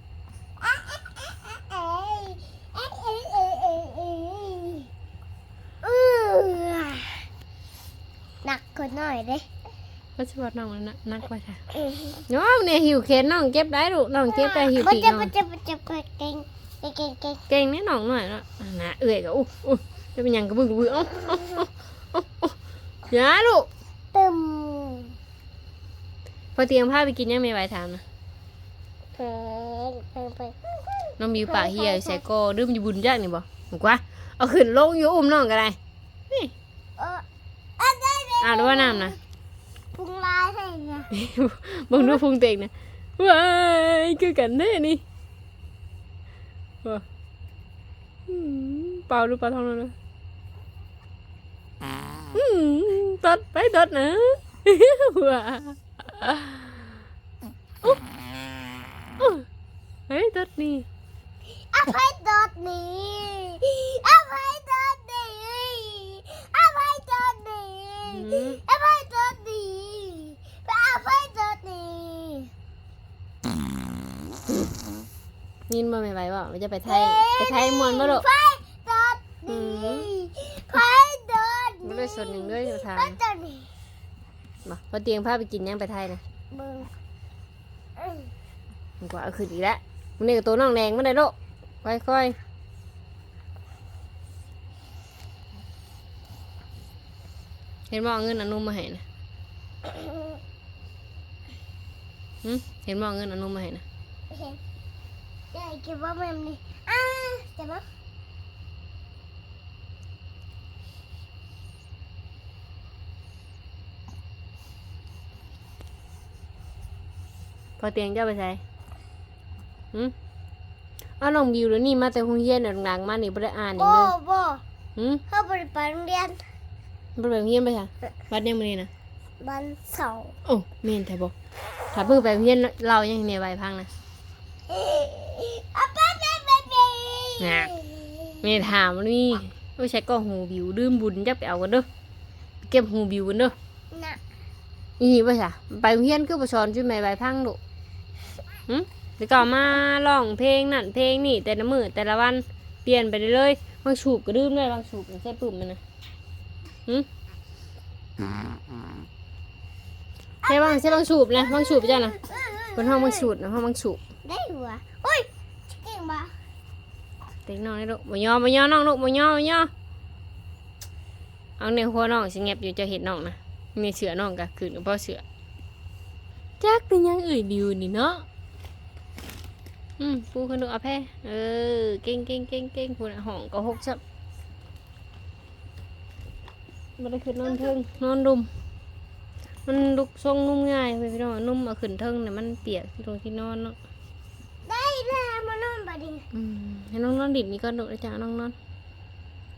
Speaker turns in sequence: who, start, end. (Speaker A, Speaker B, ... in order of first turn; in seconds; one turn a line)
Speaker A: 0.6-4.9
Speaker A: 5.8-7.2
Speaker A: 8.4-9.4
Speaker B: 10.2-11.6
Speaker A: 11.7-12.2
Speaker B: 12.3-15.3
Speaker A: 14.3-17.4
Speaker B: 17.5-22.5
Speaker B: 23.1-23.7
Speaker A: 24.1-25.1
Speaker B: 26.6-28.0
Speaker A: 29.1-32.2
Speaker B: 31.2-35.8
Speaker A: 37.0-37.2
Speaker A: 37.8-39.2
Speaker B: 38.4-39.1
Speaker A: 39.9-41.1
Speaker B: 41.1-45.0
Speaker B: 48.3-49.9
Speaker B: 52.3-57.0
Speaker B: 60.1-60.9
Speaker A: 61.7-72.5
Speaker B: 68.1-68.6
Speaker B: 75.7-78.2
Speaker A: 76.8-83.7
Speaker B: 79.5-80.1
Speaker B: 81.8-83.2
Speaker B: 84.6-86.2
Speaker A: 86.5-86.9
Speaker A: 88.0-88.3
Speaker B: 89.0-92.3
Speaker B: 97.9-99.0
Speaker A: 99.8-100.3
Speaker B: 102.4-103.8
Speaker A: 104.3-104.6
Speaker A: 105.5-107.8
Speaker B: 117.8-118.6
Speaker B: 121.2-124.1
Speaker A: 123.8-124.6
Speaker B: 125.0-125.2
Speaker A: 125.3-126.4
Speaker B: 127.2-128.9
Speaker A: 129.4-130.3
Speaker B: 130.4-131.3
Speaker B: 131.9-133.9
Speaker A: 134.7-138.5
Speaker B: 137.4-137.7
Speaker B: 138.4-141.8
Speaker B: 142.6-143.5
Speaker A: 143.9-144.2
Speaker B: 145.0-147.6
Speaker B: 148.7-155.8
Speaker A: 160.4-163.3
Speaker B: 160.4-162.2
Speaker B: 162.8-164.0
Speaker A: 164.2-166.3
Speaker B: 167.5-169.7
Speaker B: 171.6-175.2
Speaker B: 176.6-178.2
Speaker B: 180.0-184.0
Speaker B: 187.0-188.5
Speaker B: 189.7-193.8
Speaker A: 194.6-196.2
Speaker B: 196.3-198.5